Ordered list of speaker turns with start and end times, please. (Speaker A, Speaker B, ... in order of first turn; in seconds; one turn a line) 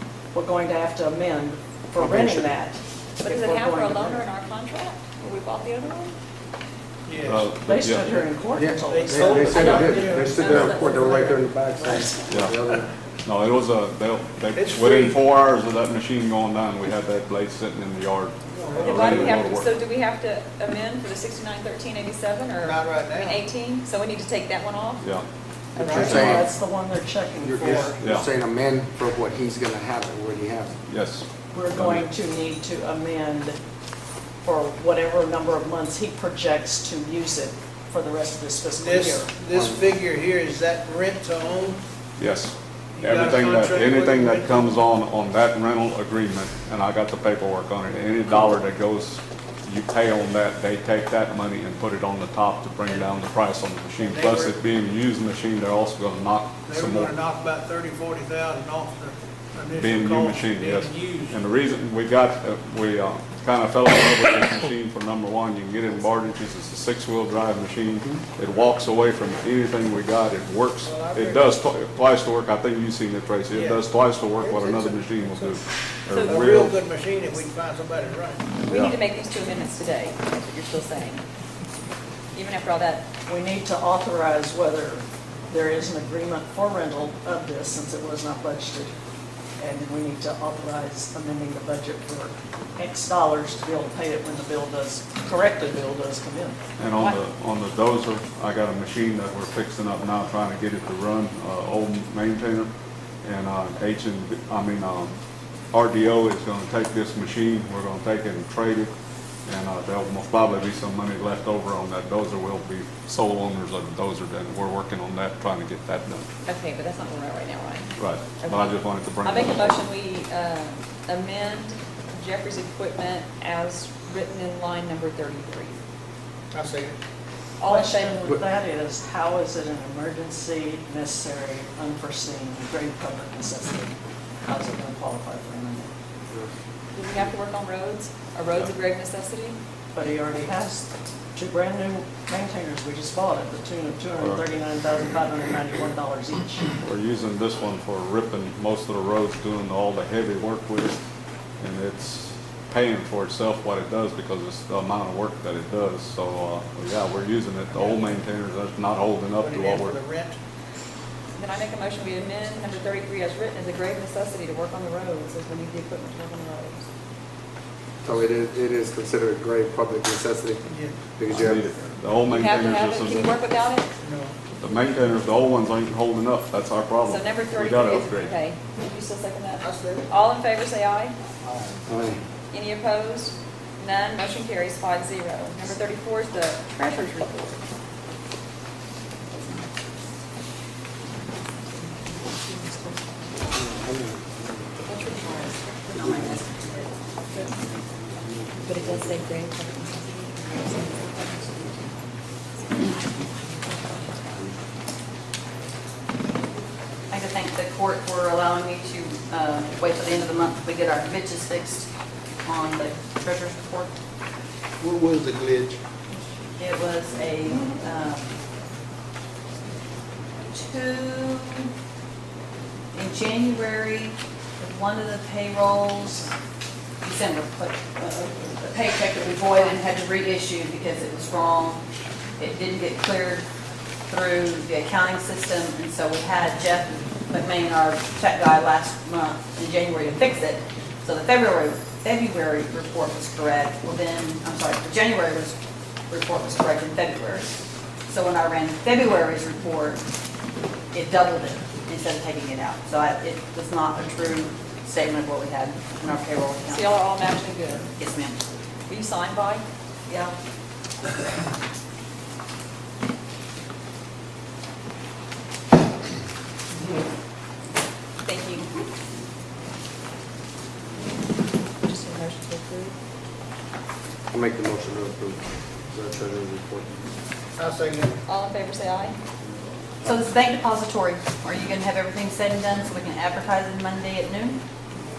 Speaker A: 0.3-4.2
Speaker B: 2.0-2.5
Speaker C: 3.2-6.2
Speaker D: 7.1-7.4
Speaker E: 7.2-8.2
Speaker A: 7.6-9.9
Speaker B: 8.6-12.9
Speaker D: 8.7-11.0
Speaker C: 9.4-12.2
Speaker E: 12.3-12.6
Speaker E: 13.2-19.7
Speaker D: 14.6-15.2
Speaker D: 18.5-19.4
Speaker C: 18.8-25.0
Speaker D: 22.6-23.4
Speaker D: 25.8-26.2
Speaker A: 25.8-27.9
Speaker E: 25.8-26.5
Speaker B: 25.9-26.4
Speaker B: 27.4-30.8
Speaker E: 28.0-28.3
Speaker E: 30.9-32.1
Speaker A: 31.5-33.6
Speaker A: 34.4-39.3
Speaker D: 38.8-41.8
Speaker E: 42.2-57.1
Speaker D: 43.0-44.6
Speaker D: 54.0-54.5
Speaker D: 56.7-61.4
Speaker E: 59.8-76.7
Speaker D: 70.8-71.5
Speaker D: 73.5-75.6
Speaker C: 76.1-76.4
Speaker D: 76.2-78.5
Speaker E: 78.6-78.9
Speaker C: 78.6-81.2
Speaker C: 82.3-83.0
Speaker A: 83.3-88.9
Speaker A: 89.6-96.6
Speaker E: 96.8-102.7
Speaker E: 103.2-105.1
Speaker E: 105.7-108.9
Speaker E: 109.5-116.2
Speaker C: 116.4-125.8
Speaker E: 118.0-119.8
Speaker D: 126.5-127.0
Speaker C: 127.6-128.3
Speaker A: 127.6-135.9
Speaker C: 136.9-139.6
Speaker A: 139.9-146.7
Speaker E: 144.2-144.4
Speaker E: 146.8-151.0
Speaker E: 151.6-159.9
Speaker D: 159.4-160.4
Speaker C: 161.3-166.9
Speaker B: 168.0-170.6
Speaker D: 170.7-171.1
Speaker B: 171.2-171.7
Speaker E: 171.3-173.3
Speaker C: 172.3-173.9
Speaker D: 174.0-174.3
Speaker E: 174.6-178.3
Speaker C: 177.0-181.1
Speaker D: 179.6-180.1
Speaker B: 181.9-182.2
Speaker C: 182.5-187.6
Speaker C: 192.1-193.0
Speaker B: 193.5-194.8
Speaker C: 194.9-195.6
Speaker F: 195.1-196.9
Speaker B: 198.1-199.1
Speaker C: 198.6-201.9
Speaker C: 202.6-204.2
Speaker F: 207.1-211.9
Speaker F: 212.4-213.9
Speaker D: 214.8-215.8
Speaker F: 216.6-218.3
Speaker F: 220.5-221.7
Speaker F: 222.9-226.3
Speaker F: 227.0-231.8
Speaker F: 232.4-233.4
Speaker F: 234.1-245.6
Speaker F: 246.1-250.0
Speaker F: 250.9-256.9
Speaker C: 256.7-257.9
Speaker F: 257.9-258.4
Speaker C: 258.9-259.6
Speaker F: 260.1-260.3
Speaker C: 268.2-268.7
Speaker C: 271.8-272.9
Speaker B: 274.3-277.0
Speaker D: 277.6-278.1
Speaker C: 278.2-279.2
Speaker F: 280.0-284.6